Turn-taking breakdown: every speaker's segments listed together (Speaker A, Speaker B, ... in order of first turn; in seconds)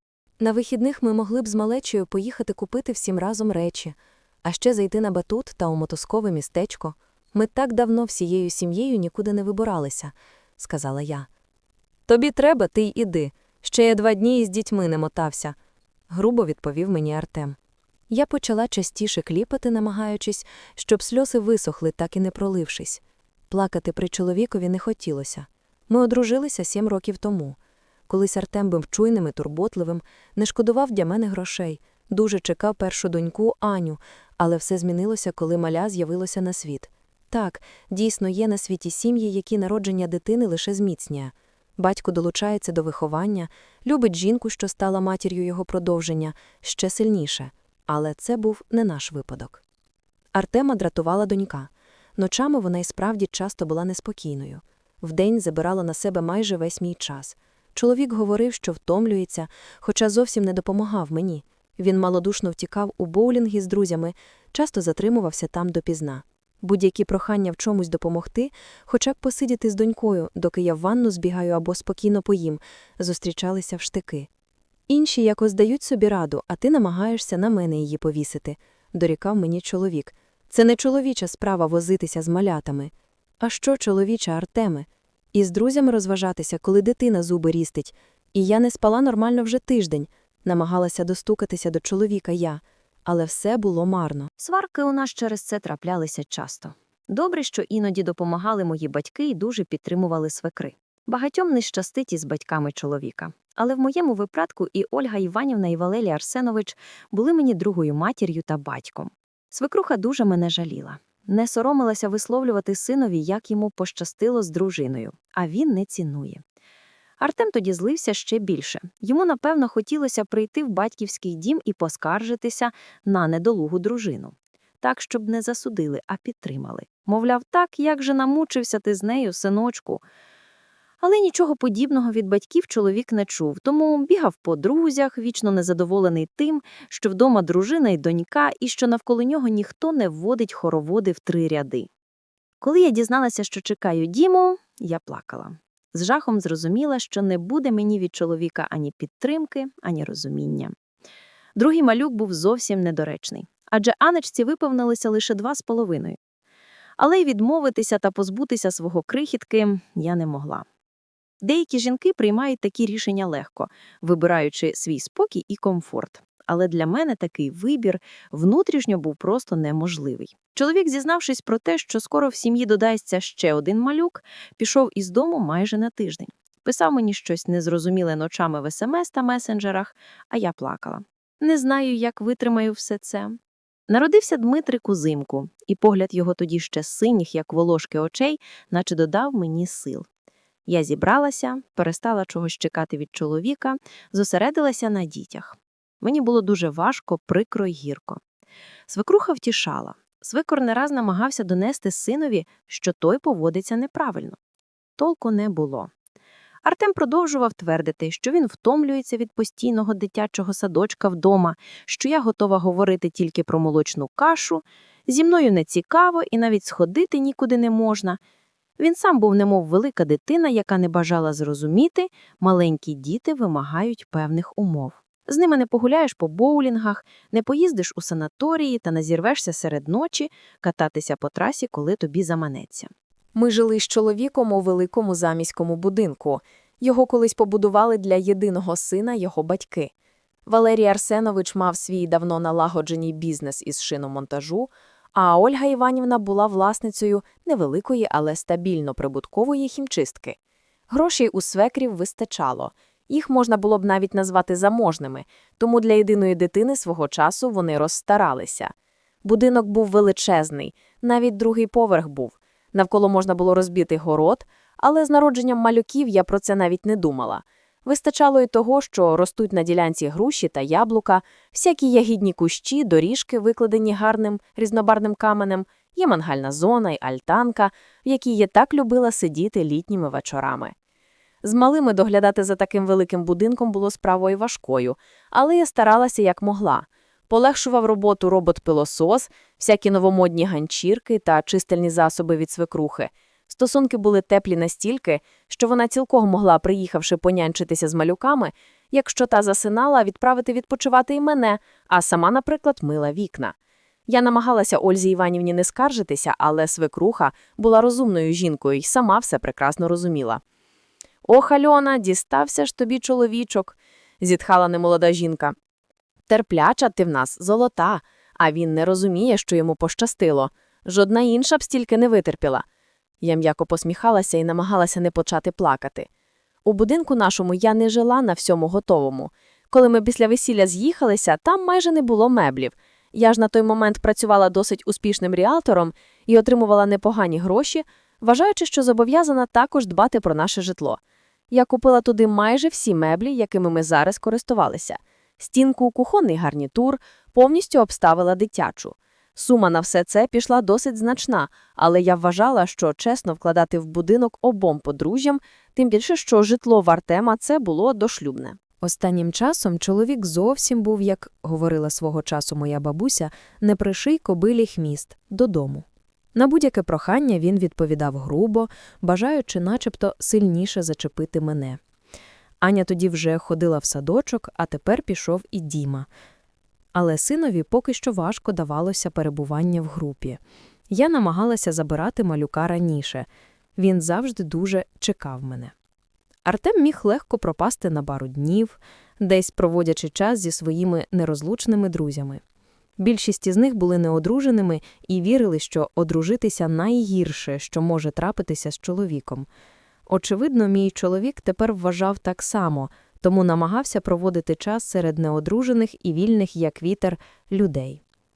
Speaker A: 0.4-11.3, 12.1-15.5, 16.1-17.6, 18.1-27.6, 28.1-49.6, 50.3-74.3, 74.9-94.5, 103.3-103.6, 112.0-112.4, 115.2-116.1, 153.5-154.1, 159.5-160.2, 163.1-163.3, 166.2-166.5, 180.5-180.9, 181.9-182.7, 200.0-201.2, 202.2-202.7, 216.0-216.5, 233.3-239.9, 240.4-250.3, 250.9-258.7, 259.2-280.7, 281.4-303.5, 304.1-310.4, 311.2-315.5, 316.3-322.6, 323.2-326.1, 326.6-341.0, 341.5-371.8, 372.6-376.1, 376.9-385.7, 386.4-392.4, 393.0-399.5, 400.1-408.0
Speaker B: 94.5-116.4, 117.2-130.0, 131.0-141.8, 142.6-150.7, 151.6-156.1, 157.0-160.6, 161.4-183.3, 183.9-190.0, 190.7-198.2, 198.9-204.3, 205.0-205.9, 206.7-218.1, 218.8-232.9